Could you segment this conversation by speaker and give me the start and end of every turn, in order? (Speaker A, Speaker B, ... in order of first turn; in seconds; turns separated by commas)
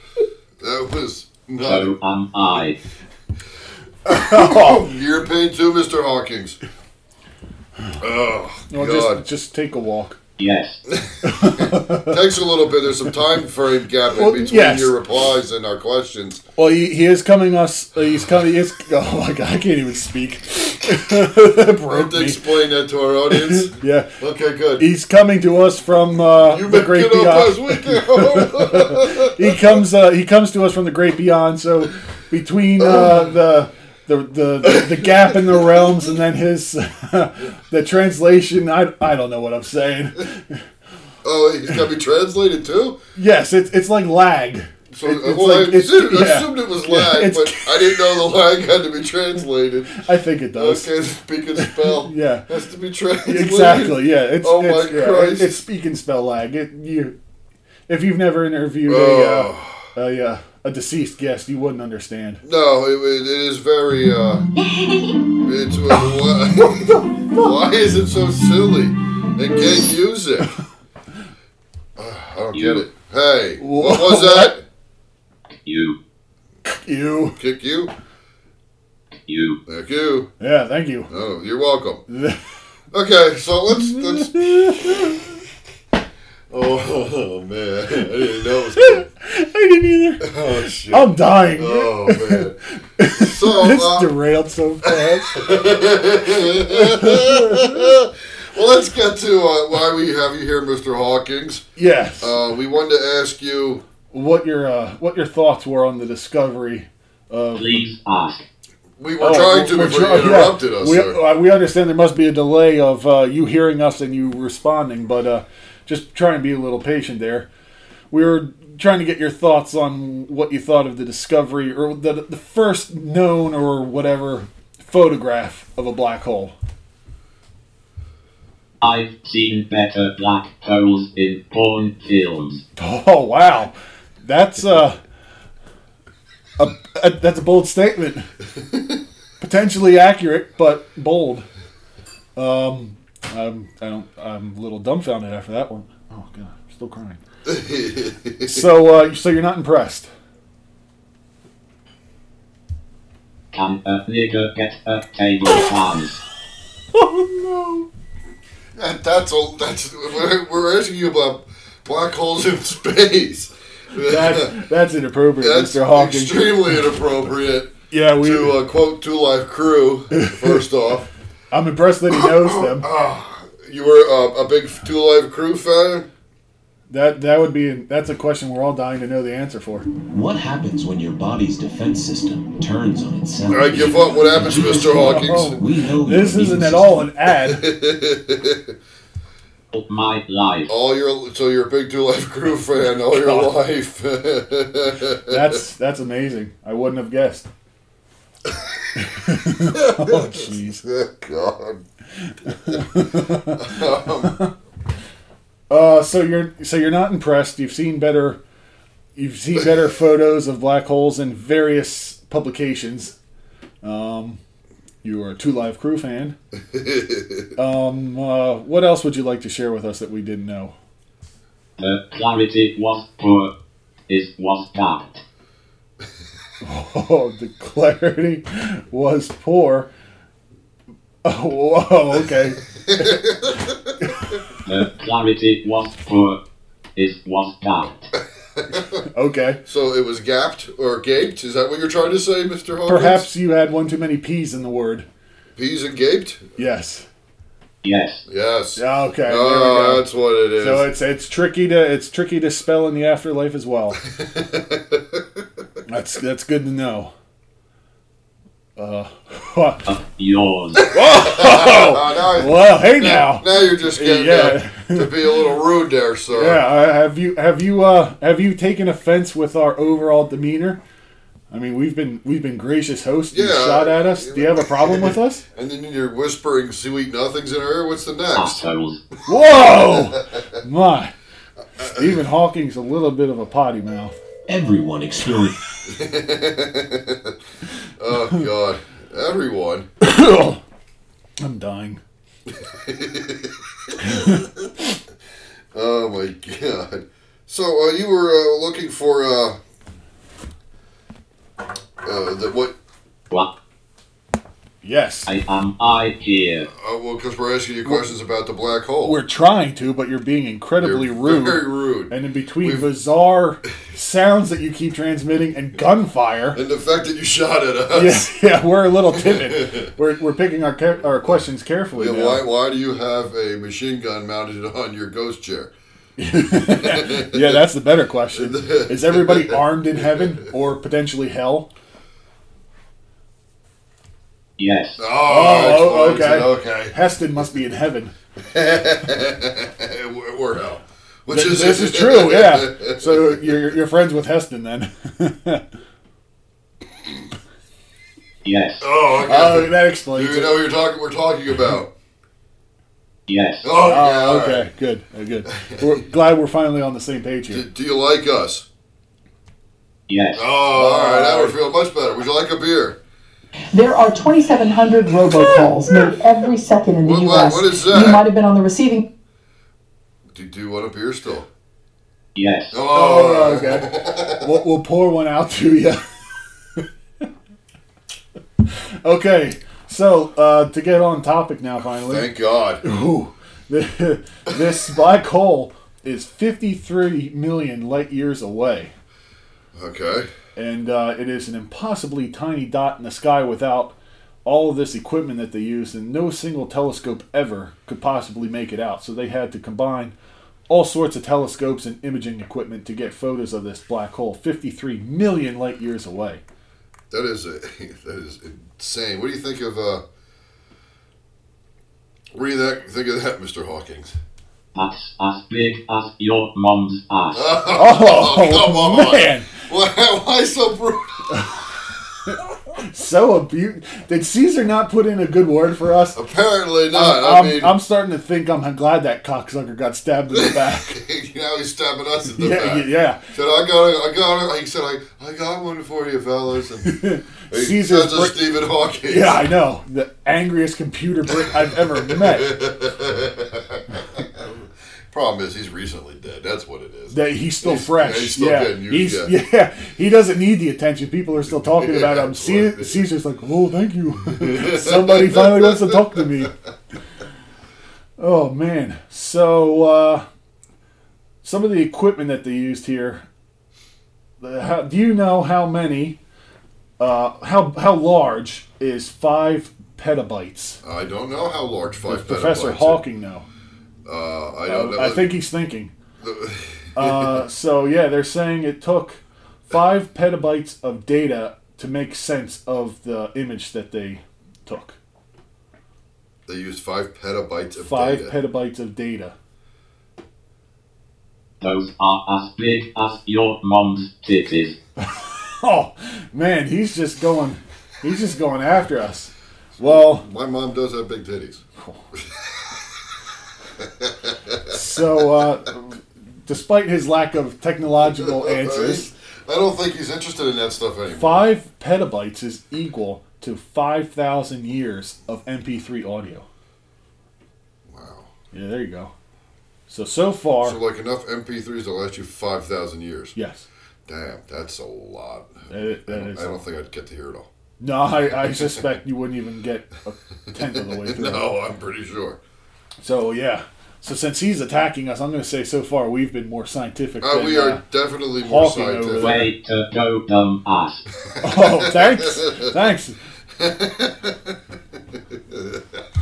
Speaker A: 0.6-1.9, Speaker B: 1.6-2.8, Speaker C: 4.1-4.8, Speaker A: 4.1-6.6, Speaker A: 8.0-9.2, Speaker C: 8.7-10.2, Speaker B: 10.4-10.8, Speaker A: 10.9-16.4, Speaker C: 11.2-12.2, Speaker C: 14.1-15.0, Speaker C: 16.6-22.4, Speaker A: 21.9-24.9, Speaker C: 23.3-24.1, Speaker C: 24.8-40.6, Speaker A: 26.3-29.7, Speaker A: 32.8-33.3, Speaker A: 34.6-35.8, Speaker A: 41.2-43.0, Speaker C: 43.1-48.0, Speaker A: 44.9-55.6, Speaker C: 50.0-50.9, Speaker C: 51.6-52.5, Speaker C: 53.2-57.1, Speaker C: 57.9-62.4, Speaker A: 58.9-59.9, Speaker A: 62.4-64.5, Speaker A: 65.4-70.5, Speaker C: 66.5-67.6, Speaker A: 72.0-74.6, Speaker B: 72.5-72.8, Speaker C: 73.6-74.5, Speaker B: 75.6-76.0, Speaker C: 76.7-77.4, Speaker A: 77.4-77.9, Speaker B: 79.2-79.6, Speaker A: 79.7-80.3, Speaker C: 80.4-81.1, Speaker A: 81.1-82.0, Speaker C: 82.1-82.4, Speaker A: 82.9-85.3, Speaker C: 83.7-85.2, Speaker A: 86.5-89.0, Speaker C: 88.8-90.3, Speaker A: 90.2-94.1, Speaker C: 90.9-95.5, Speaker A: 94.8-101.7, Speaker C: 96.6-97.9, Speaker C: 101.8-102.4, Speaker A: 102.2-103.8, Speaker C: 104.1-107.8, Speaker B: 107.5-108.5, Speaker A: 109.0-111.2, Speaker C: 109.2-117.5, Speaker C: 118.1-126.5, Speaker B: 128.8-132.6, Speaker C: 132.8-135.0, Speaker C: 136.6-138.3, Speaker C: 139.4-141.5, Speaker C: 142.3-147.2, Speaker A: 147.4-148.7, Speaker C: 148.4-150.1, Speaker B: 153.5-156.2, Speaker C: 156.9-157.9, Speaker A: 158.8-164.6, Speaker C: 164.0-166.6, Speaker A: 165.4-171.1, Speaker C: 167.9-168.6, Speaker C: 170.1-170.6, Speaker C: 171.5-172.9, Speaker A: 172.1-176.1, Speaker C: 176.9-179.9, Speaker D: 180.1-187.1, Speaker A: 183.5-185.6, Speaker C: 184.8-187.6, Speaker A: 187.4-188.7, Speaker B: 189.7-190.7, Speaker A: 190.7-195.6, Speaker C: 193.1-193.5, Speaker C: 195.3-197.5, Speaker A: 198.4-198.8, Speaker C: 198.9-200.8, Speaker A: 199.7-201.8, Speaker C: 202.3-204.5, Speaker A: 202.7-204.3, Speaker C: 205.7-208.4, Speaker C: 209.2-213.2, Speaker C: 213.8-214.4, Speaker C: 215.0-216.3, Speaker A: 216.7-217.5, Speaker C: 217.6-220.7, Speaker B: 221.8-223.5, Speaker B: 224.1-225.2, Speaker C: 226.6-229.9, Speaker C: 231.2-233.2, Speaker A: 232.8-233.9, Speaker C: 234.0-234.3, Speaker B: 234.7-236.4, Speaker B: 236.9-238.1, Speaker A: 238.6-239.0, Speaker C: 239.1-239.6, Speaker A: 239.7-243.3, Speaker C: 242.9-245.1, Speaker A: 245.6-246.4, Speaker C: 246.6-247.1, Speaker B: 247.8-248.2, Speaker A: 248.3-250.9, Speaker C: 248.8-250.1, Speaker C: 250.6-254.0, Speaker A: 254.0-255.4, Speaker C: 255.9-257.1, Speaker C: 258.8-259.8, Speaker B: 259.9-260.8, Speaker A: 260.8-266.6, Speaker C: 260.9-265.4, Speaker C: 266.3-270.8, Speaker C: 271.5-275.4, Speaker A: 273.3-278.6, Speaker B: 278.3-279.0, Speaker C: 279.3-281.1, Speaker A: 279.5-280.4, Speaker A: 281.8-282.2, Speaker C: 281.8-284.1, Speaker D: 284.5-285.6, Speaker A: 285.9-287.4, Speaker A: 288.0-289.9, Speaker C: 290.0-290.6, Speaker C: 291.4-292.0, Speaker A: 292.7-294.5, Speaker C: 294.0-294.5, Speaker A: 295.7-299.6, Speaker A: 302.0-302.7, Speaker C: 304.8-305.3, Speaker B: 305.3-306.7, Speaker A: 306.7-309.2, Speaker C: 309.0-316.6, Speaker A: 310.8-312.9, Speaker A: 316.5-318.3, Speaker C: 317.9-322.4, Speaker A: 319.1-319.9, Speaker A: 321.9-325.7, Speaker C: 326.2-331.7, Speaker A: 326.5-327.6, Speaker A: 328.3-330.4, Speaker B: 334.6-335.0, Speaker A: 335.0-336.9, Speaker C: 335.2-338.1, Speaker A: 338.4-343.6, Speaker C: 341.3-345.6, Speaker B: 348.4-348.8, Speaker A: 348.8-351.9, Speaker C: 349.2-350.6, Speaker B: 353.3-353.7, Speaker A: 353.6-354.7, Speaker C: 353.8-357.6, Speaker A: 355.5-356.0, Speaker A: 357.5-358.6, Speaker B: 360.1-360.5, Speaker A: 360.3-363.0, Speaker C: 360.7-361.6, Speaker E: 363.7-369.1, Speaker A: 367.0-368.2, Speaker A: 370.3-371.5, Speaker B: 372.4-372.8, Speaker A: 372.7-374.5, Speaker C: 372.9-376.0, Speaker C: 379.0-388.9, Speaker A: 382.0-382.8, Speaker A: 389.7-390.3, Speaker C: 390.6-400.1, Speaker C: 400.7-406.4, Speaker A: 407.1-410.0, Speaker A: 412.3-414.1, Speaker B: 414.7-417.5, Speaker A: 417.3-422.3, Speaker C: 417.7-419.6, Speaker C: 422.8-426.2, Speaker A: 426.1-427.8, Speaker C: 426.9-431.0, Speaker A: 430.3-439.5, Speaker C: 432.3-433.2, Speaker C: 436.9-438.4, Speaker C: 439.1-442.6, Speaker A: 441.3-449.3, Speaker C: 447.1-456.5, Speaker A: 451.6-453.1, Speaker A: 454.2-456.4, Speaker C: 458.2-460.2, Speaker C: 461.4-463.2, Speaker C: 464.4-466.2, Speaker C: 467.0-470.8, Speaker A: 470.8-473.0, Speaker C: 472.1-473.5, Speaker A: 474.1-475.4, Speaker C: 474.6-475.9, Speaker A: 476.2-477.4, Speaker C: 476.9-485.0, Speaker A: 486.5-488.4, Speaker C: 487.8-489.3, Speaker B: 491.6-494.8, Speaker C: 495.0-500.2, Speaker A: 499.8-501.6, Speaker A: 503.8-505.1, Speaker C: 504.7-509.1, Speaker A: 508.0-511.5, Speaker C: 511.1-516.5, Speaker A: 517.9-518.3, Speaker C: 518.5-519.1, Speaker C: 519.9-520.8, Speaker A: 520.6-523.3, Speaker C: 523.3-523.6, Speaker A: 524.0-527.5, Speaker C: 525.7-526.6, Speaker C: 527.8-531.5, Speaker A: 528.4-528.8, Speaker A: 530.5-532.4, Speaker C: 533.0-537.8, Speaker A: 537.2-539.5, Speaker C: 538.4-539.4, Speaker B: 539.1-541.0, Speaker A: 541.3-542.7, Speaker C: 541.4-543.2, Speaker A: 543.6-544.6, Speaker A: 545.1-546.0